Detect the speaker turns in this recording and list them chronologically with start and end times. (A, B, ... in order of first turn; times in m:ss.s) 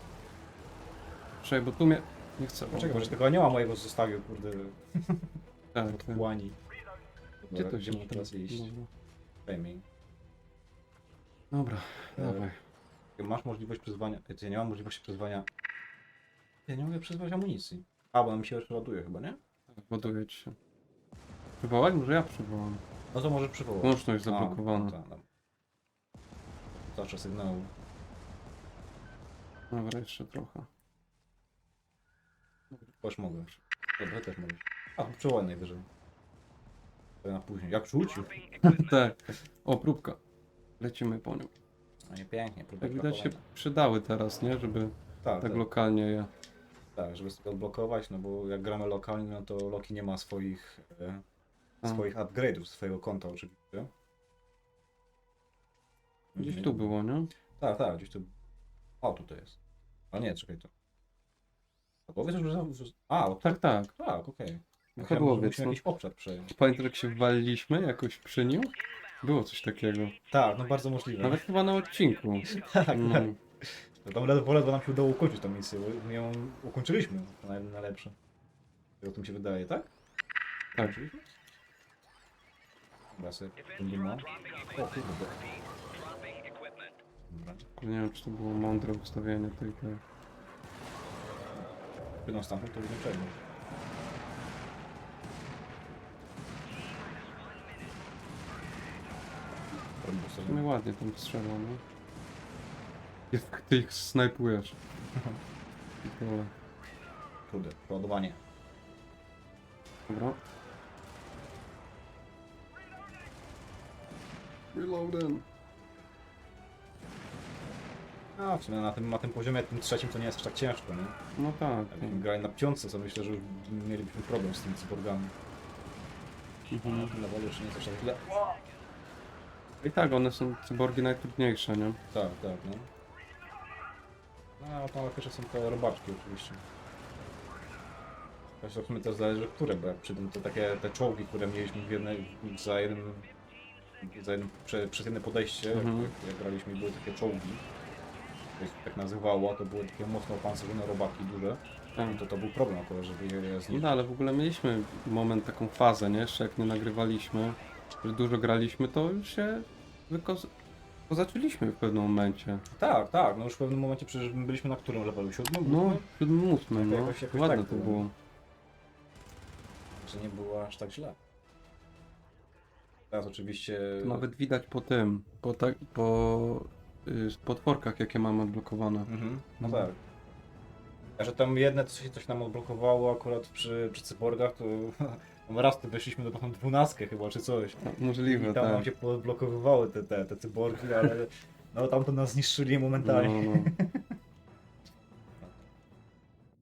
0:01.4-0:03.2 A
0:02.7-0:05.3 B
0:05.7-0:06.2 A
0:05.8-0:06.6 B
0:07.4-0:08.7 B
0:07.4-0:08.9 A
0:09.4-0:09.8 B
0:11.5-0:12.6 A
0:12.2-0:12.4 B
0:13.2-0:15.5 B
0:16.7-0:19.4 B
0:19.7-0:20.6 A
0:21.6-0:22.8 A
0:23.1-0:25.2 B
0:23.8-0:25.0 A
0:26.8-0:27.7 B
0:29.7-0:30.7 A
0:33.0-0:35.8 B
0:37.2-0:38.5 B
0:38.6-0:40.2 A
0:40.8-0:41.5 A
0:42.1-0:43.4 B
0:42.8-0:46.3 A
0:45.2-0:45.6 B
0:47.0-0:51.2 B
0:51.8-0:53.9 B
0:56.3-0:56.9 B
0:56.4-0:57.3 A
0:57.6-0:58.3 B
0:59.0-0:59.6 B
1:00.1-1:00.7 B
1:02.1-1:06.5 B
1:03.4-1:03.9 A
1:05.0-1:05.8 A
1:06.5-1:10.2 A
1:10.3-1:11.4 B
1:11.2-1:13.4 A
1:12.5-1:13.3 B
1:14.0-1:18.1 B
1:19.0-1:19.9 B
1:20.7-1:21.3 B
1:23.1-1:25.5 B
1:27.3-1:27.7 B
1:27.8-1:30.0 A
1:32.2-1:33.3 B
1:40.0-1:40.6 B
1:40.5-1:41.8 A
1:43.3-1:44.8 A
1:45.1-1:45.4 B
1:46.0-1:46.5 A
1:47.5-1:48.4 B
1:50.1-1:50.4 A
1:54.7-1:55.4 A
1:58.4-2:01.2 B
2:01.3-2:02.2 A
2:01.9-2:05.3 B
2:06.7-2:07.1 A
2:06.8-2:08.5 B
2:09.8-2:12.0 A
2:12.1-2:12.9 B
2:14.6-2:16.6 B
2:18.6-2:23.3 B
2:24.0-2:27.6 B
2:25.7-2:26.1 A
2:28.6-2:34.0 B
2:33.7-2:40.5 A
2:41.1-2:42.6 A
2:42.7-2:46.0 B
2:45.6-2:48.1 A
2:46.7-2:48.0 B
2:50.0-2:51.2 B
2:53.1-2:54.3 B
2:54.0-2:59.1 A
2:59.1-3:00.0 B
2:59.6-2:59.9 A
3:01.2-3:14.0 B
3:07.8-3:08.9 A
3:13.0-3:13.7 A